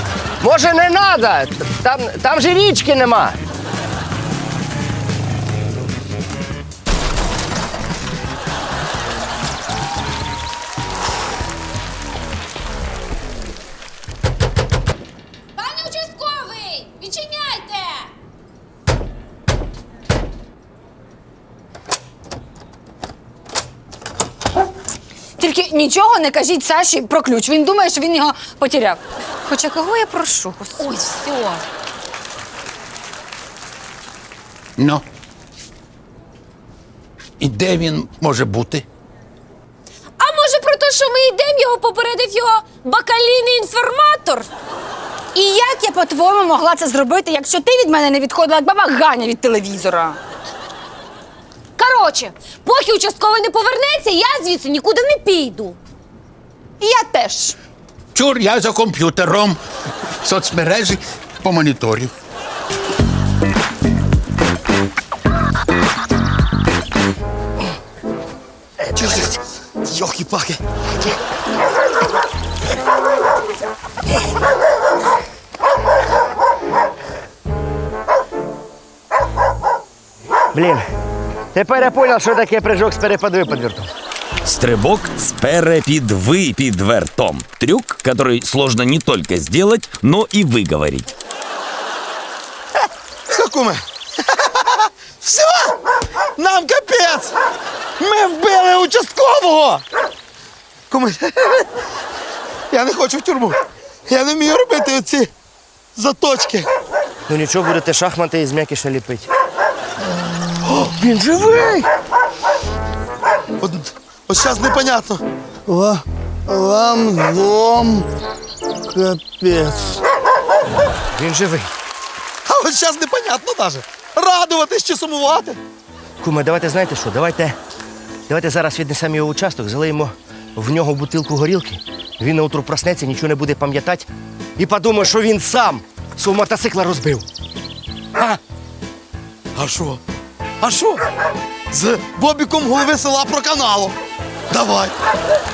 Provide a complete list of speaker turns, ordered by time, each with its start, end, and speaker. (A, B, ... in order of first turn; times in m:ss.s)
0:00.4-0:03.4 A
0:15.6-0:18.1 B
0:25.4-0:30.9 C
0:30.8-0:31.6 B
0:34.8-0:35.0 D
0:37.4-0:38.8 D
0:40.2-0:44.5 B
0:45.3-0:50.2 C
0:51.8-0:55.8 B
0:56.8-0:57.6 C
0:58.1-0:59.6 D
1:00.2-1:02.1 D
1:09.0-1:09.2 E
1:09.9-1:10.6 E
1:20.5-1:20.8 A
1:21.5-1:23.9 A
1:24.4-1:31.1 F
1:33.3-1:33.8 E
1:35.2-1:35.8 E
1:36.4-1:37.3 E
1:38.0-1:39.8 E
1:40.9-1:41.7 E
1:42.7-1:45.3 E
1:45.9-1:46.7 E
1:47.3-1:49.3 A
1:50.7-1:51.0 E
1:50.8-1:51.8 A
1:53.6-1:55.2 E
1:55.7-1:58.0 G
1:58.9-2:00.0 G
2:01.1-2:01.7 A
2:02.4-2:05.6 E
2:06.2-2:07.6 A
2:08.3-2:14.1 A
2:14.6-2:17.2 A
2:19.5-2:20.0 E
2:20.6-2:21.0 E
2:21.7-2:24.0 E
2:24.5-2:25.0 E